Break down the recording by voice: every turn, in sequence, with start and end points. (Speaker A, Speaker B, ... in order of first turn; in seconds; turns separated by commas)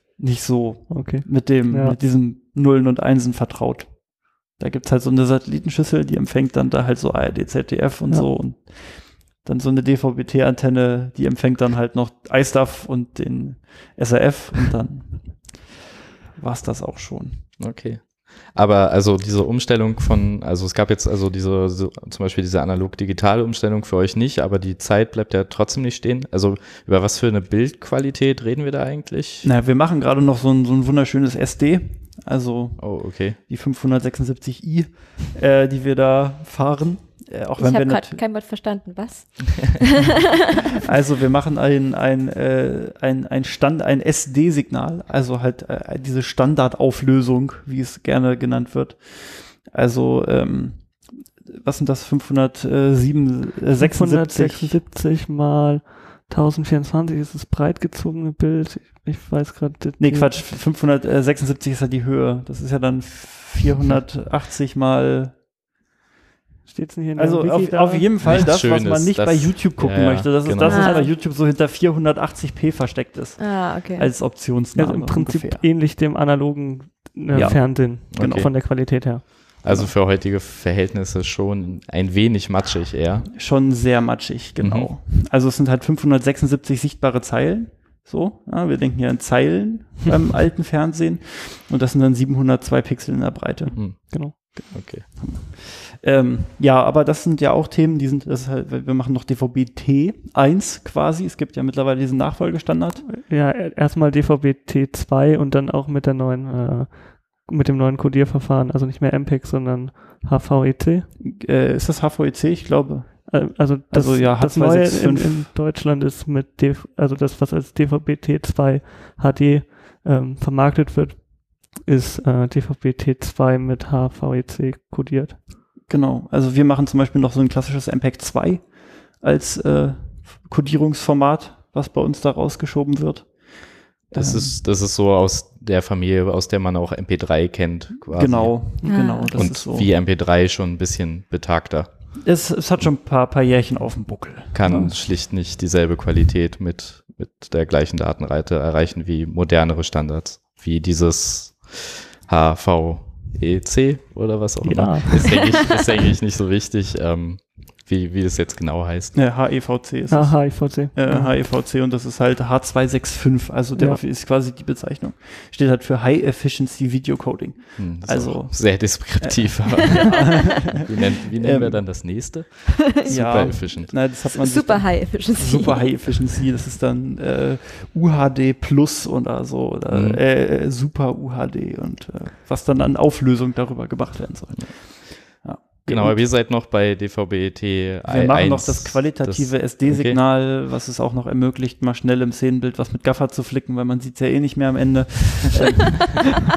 Speaker A: 0.2-15.7, Speaker B: 0.9-2.0, Speaker A: 16.4-17.6, Speaker C: 17.6-29.5, Speaker A: 29.4-38.2, Speaker C: 32.8-33.4, Speaker D: 37.6-39.9, Speaker A: 40.8-54.8, Speaker B: 53.8-60.5, Speaker A: 60.0-65.4, Speaker B: 66.7-68.1, Speaker A: 67.2-75.7, Speaker C: 68.2-71.0, Speaker D: 70.6-71.1, Speaker D: 73.4-74.1, Speaker B: 74.8-79.6, Speaker A: 77.3-78.5, Speaker C: 77.3-83.3, Speaker A: 79.7-79.9, Speaker A: 83.3-93.9, Speaker C: 84.6-84.9, Speaker C: 93.8-95.1, Speaker B: 93.9-94.8, Speaker A: 95.1-103.1, Speaker B: 103.1-111.1, Speaker A: 111.2-115.5, Speaker B: 113.3-125.4, Speaker A: 125.9-134.6, Speaker C: 134.1-142.2, Speaker A: 138.1-139.9, Speaker B: 138.8-139.1, Speaker D: 138.8-139.3, Speaker A: 142.2-144.7, Speaker C: 144.5-159.5, Speaker B: 144.7-144.9, Speaker B: 154.6-155.4, Speaker A: 159.1-172.4, Speaker B: 160.1-161.3, Speaker B: 163.8-164.0, Speaker C: 167.8-174.1, Speaker A: 173.0-186.3, Speaker D: 174.0-176.4, Speaker C: 179.9-180.2, Speaker C: 185.4-190.2, Speaker A: 188.1-196.3